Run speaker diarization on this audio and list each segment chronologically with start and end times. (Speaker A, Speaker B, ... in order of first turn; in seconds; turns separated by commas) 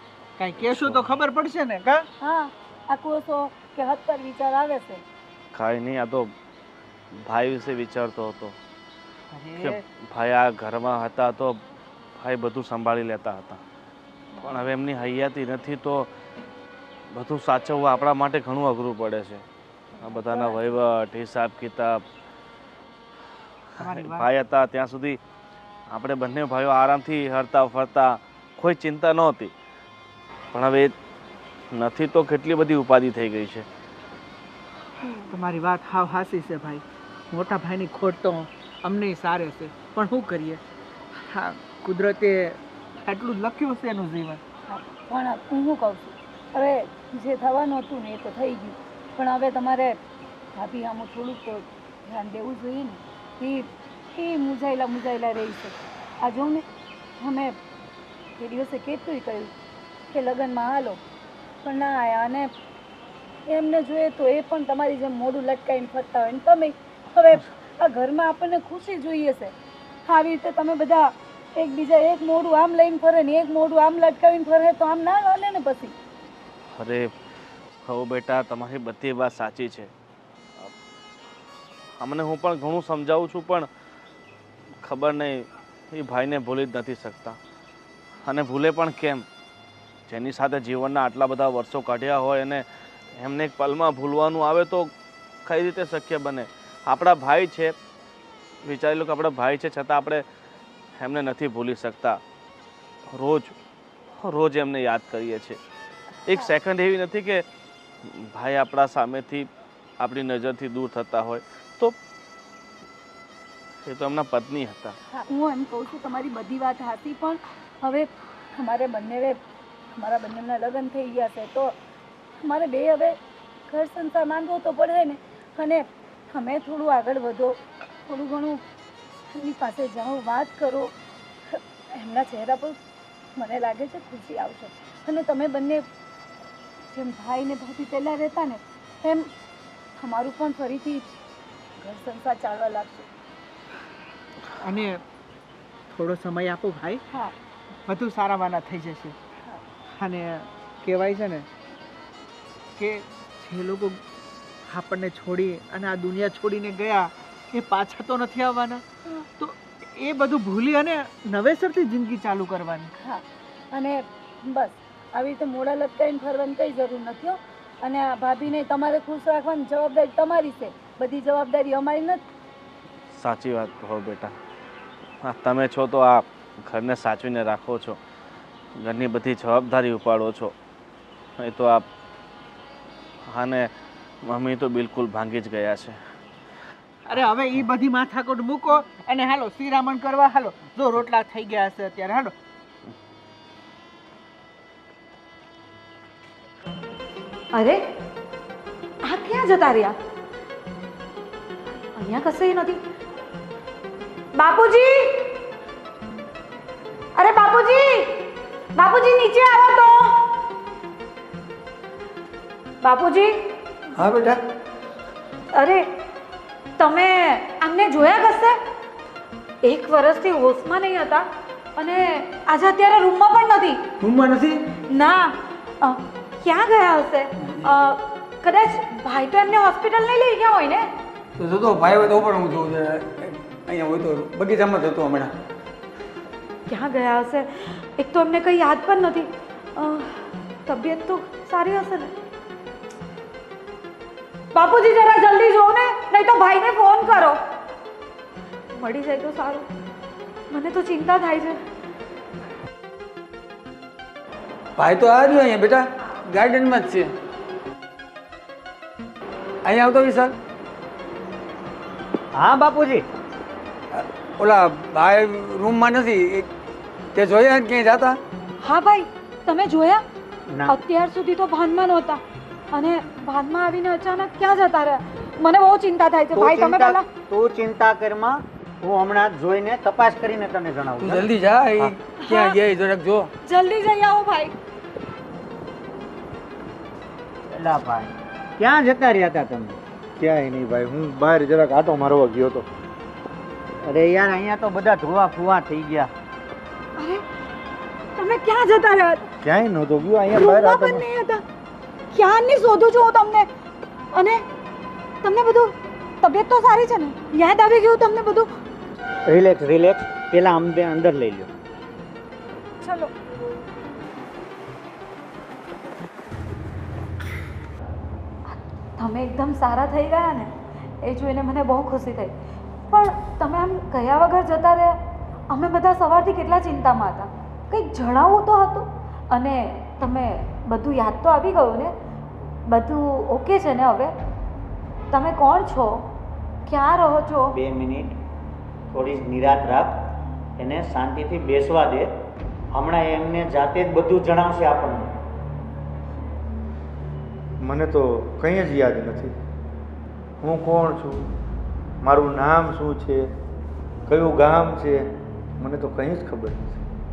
Speaker A: 0.4-2.0, Speaker B: 0.7-1.0, Speaker C: 2.2-5.0, Speaker B: 5.5-6.3, Speaker B: 7.2-8.6, Speaker A: 9.3-9.8, Speaker B: 9.6-11.6, Speaker B: 12.2-13.6, Speaker B: 14.4-16.1, Speaker B: 17.1-19.4, Speaker C: 20.0-20.6, Speaker B: 20.0-22.0, Speaker A: 23.8-24.3, Speaker B: 23.8-25.2, Speaker B: 25.9-29.5, Speaker B: 30.5-30.9, Speaker B: 31.7-33.7, Speaker A: 35.3-40.6, Speaker A: 41.3-44.4, Speaker C: 44.7-50.0, Speaker C: 50.6-56.6, Speaker C: 57.2-57.6, Speaker C: 58.4-59.5, Speaker C: 60.1-61.0, Speaker C: 61.6-62.5, Speaker C: 63.5-69.5, Speaker C: 70.1-76.0, Speaker B: 76.8-77.1, Speaker B: 77.8-79.9, Speaker B: 82.0-83.7, Speaker B: 84.8-87.4, Speaker B: 88.2-89.2, Speaker B: 90.1-92.6, Speaker B: 93.2-94.9, Speaker B: 95.5-97.7, Speaker B: 98.7-100.2, Speaker B: 101.0-102.2, Speaker B: 103.1-103.5, Speaker B: 104.2-105.6, Speaker B: 106.3-107.4, Speaker B: 108.0-109.5, Speaker B: 110.0-112.0, Speaker B: 113.8-115.0, Speaker C: 115.1-119.4, Speaker C: 120.0-121.8, Speaker C: 122.4-123.2, Speaker C: 123.7-128.6, Speaker C: 129.3-130.9, Speaker C: 131.5-132.8, Speaker C: 133.4-135.8, Speaker C: 136.9-139.3, Speaker C: 140.0-141.1, Speaker C: 141.8-143.1, Speaker A: 144.6-145.0, Speaker A: 145.9-147.0, Speaker A: 147.9-149.2, Speaker A: 150.0-151.5, Speaker A: 152.8-154.0, Speaker A: 154.7-158.8, Speaker A: 159.4-162.9, Speaker C: 163.0-172.2, Speaker B: 173.1-174.3, Speaker B: 175.2-178.0, Speaker B: 178.8-180.5, Speaker B: 181.4-181.9, Speaker B: 183.3-183.7, Speaker B: 184.2-186.0, Speaker A: 187.1-192.3, Speaker D: 197.5-197.8, Speaker D: 199.0-200.0, Speaker D: 202.0-202.8, Speaker D: 204.3-205.4, Speaker D: 207.2-210.3, Speaker D: 212.8-213.4, Speaker E: 214.0-214.4, Speaker D: 215.5-215.9, Speaker D: 216.8-218.6, Speaker D: 219.6-223.8, Speaker E: 224.0-224.6, Speaker D: 224.9-230.9, Speaker E: 227.4-227.7, Speaker E: 231.4-235.3, Speaker D: 236.7-242.1, Speaker D: 244.5-247.4, Speaker D: 248.7-249.7, Speaker D: 250.5-251.6, Speaker E: 254.8-257.1, Speaker E: 259.6-260.4, Speaker F: 262.4-263.1, Speaker E: 264.0-266.5, Speaker E: 267.1-268.2, Speaker D: 268.6-270.0, Speaker F: 270.5-270.8, Speaker D: 270.7-272.2, Speaker D: 272.7-277.1, Speaker F: 276.4-281.3, Speaker E: 281.0-283.3, Speaker D: 282.2-282.6, Speaker D: 283.4-284.5, Speaker F: 287.5-289.8, Speaker G: 290.2-292.7, Speaker F: 293.8-296.1, Speaker D: 297.0-297.2, Speaker D: 298.2-299.2, Speaker G: 299.4-301.1, Speaker D: 300.4-301.4, Speaker D: 302.1-303.5, Speaker D: 304.1-304.4, Speaker D: 305.2-308.5, Speaker F: 309.3-311.5, Speaker D: 312.8-313.1, Speaker D: 318.5-322.3, Speaker D: 322.9-325.0, Speaker D: 325.5-331.9, Speaker D: 332.7-334.1, Speaker D: 335.1-336.1, Speaker D: 336.7-337.6, Speaker F: 337.6-338.2, Speaker F: 338.9-339.9, Speaker F: 340.6-342.1, Speaker F: 342.7-345.1, Speaker G: 347.6-349.3, Speaker G: 350.4-351.3, Speaker G: 352.0-353.2, Speaker G: 354.1-355.1, Speaker G: 355.6-356.8